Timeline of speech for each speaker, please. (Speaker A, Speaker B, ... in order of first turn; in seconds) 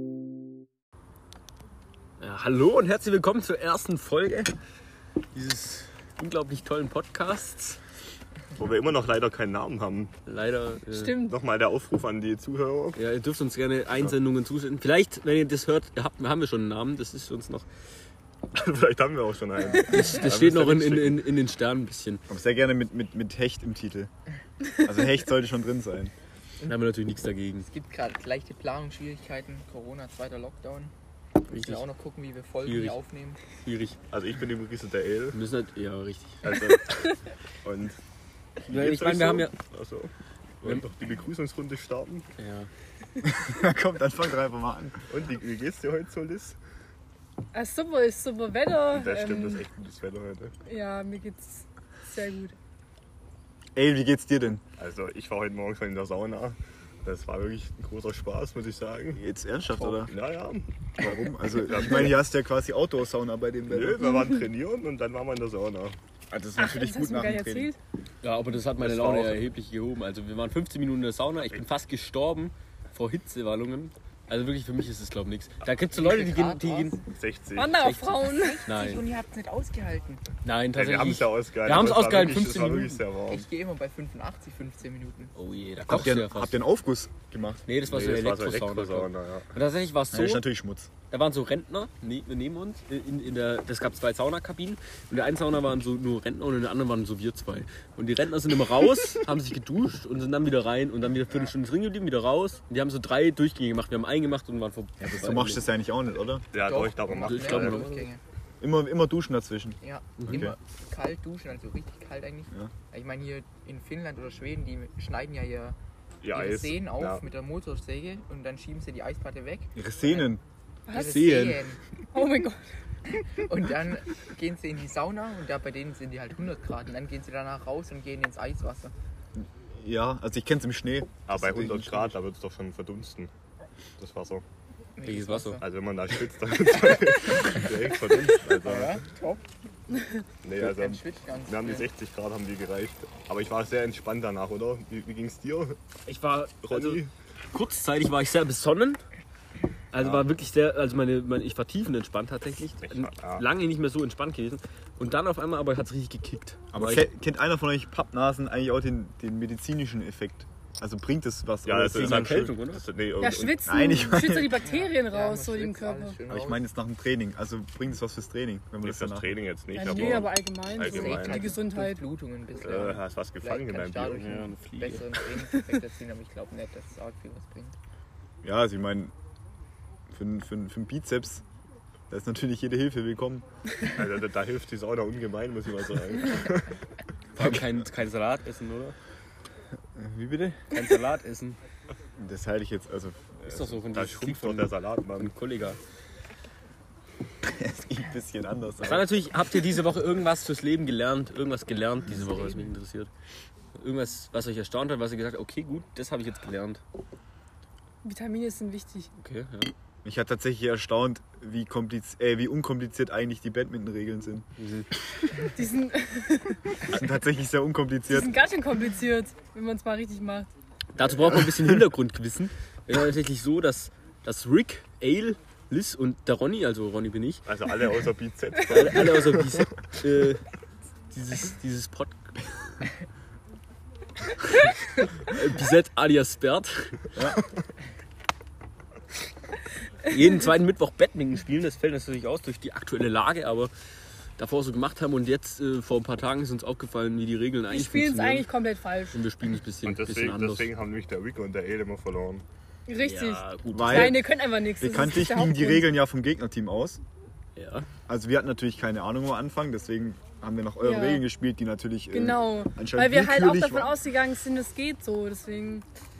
Speaker A: 2.2-4.5, 5.3-7.8, 10.3-11.2, 12.9-17.7, 19.7-22.2, 26.6-27.7, 31.5-31.9, 32.6-34.0, 35.3-36.6, 38.7-39.5, 42.4-42.7, 68.2-77.0, 77.6-79.0, 80.4-83.0, 85.4-86.6, 87.7-90.5, 91.1-105.7, 107.2-108.1, 110.2-110.5, 120.9-121.6, 135.0-135.6, 146.1-147.0, 147.5-149.0, 149.9-157.1, 161.9-162.8, 174.2-175.1, 187.3-189.0, 190.7-191.6, 193.4-195.8, 198.8-203.1, 203.8-206.8, 209.2-209.7, 214.6-214.9, 220.9-227.4, 228.7-230.4, 231.1-232.4, 235.2-237.1, 240.1-243.7, 244.4-248.5, 249.1-250.7, 253.0-254.2, 257.6-257.9
Speaker B: 8.6-10.1, 11.3-13.0, 18.5-21.2, 34.1-35.4, 36.4-38.0, 38.7-42.3, 45.1-46.6, 48.9-50.5, 54.8-59.2, 59.8-62.2, 63.7-66.0, 68.8-69.5, 77.1-77.7, 80.8-83.5, 87.9-89.5, 106.5-107.9, 116.2-117.2, 131.3-133.3, 134.0-134.4, 135.6-139.0, 140.4-145.8, 146.6-147.1, 150.0-150.2, 152.9-153.5, 161.7-163.8, 168.8-171.5, 172.6-174.5, 183.9-186.7, 193.9-195.3, 227.5-229.6, 249.8-252.4
Speaker C: 10.9-11.4, 47.5-49.6, 50.7-52.5, 66.6-67.8, 77.6-78.7, 120.9-121.2, 122.1-122.7, 163.2-166.2, 169.7-172.0, 208.0-209.1, 215.4-216.6, 218.1-220.5, 247.7-249.2, 252.9-255.9, 260.8-261.2, 262.1-265.8
Speaker D: 19.6-20.3, 27.6-30.9, 31.5-33.4, 75.9-77.1, 78.2-80.2, 83.3-85.3, 106.6-108.2, 109.8-115.8, 116.3-120.3, 120.9-121.8, 123.1-128.9, 135.0-135.7, 138.6-139.4, 140.6-141.9, 164.5-166.6, 170.8-177.8
Speaker E: 22.3-24.1, 24.8-26.1, 43.2-45.0, 53.8-54.6, 59.1-60.1, 61.0-64.0, 66.3-67.7, 85.9-87.6, 90.1-90.9, 105.0-106.4, 108.6-110.5, 119.8-120.4, 129.3-132.2, 156.7-162.5, 163.7-164.7, 166.3-169.3, 178.4-179.1, 180.1-181.4, 182.1-183.4, 189.9-190.6, 192.2-193.7, 197.4-199.1, 210.0-214.5, 216.9-218.3, 221.3-221.9, 253.7-254.3, 254.8-257.0, 258.1-263.9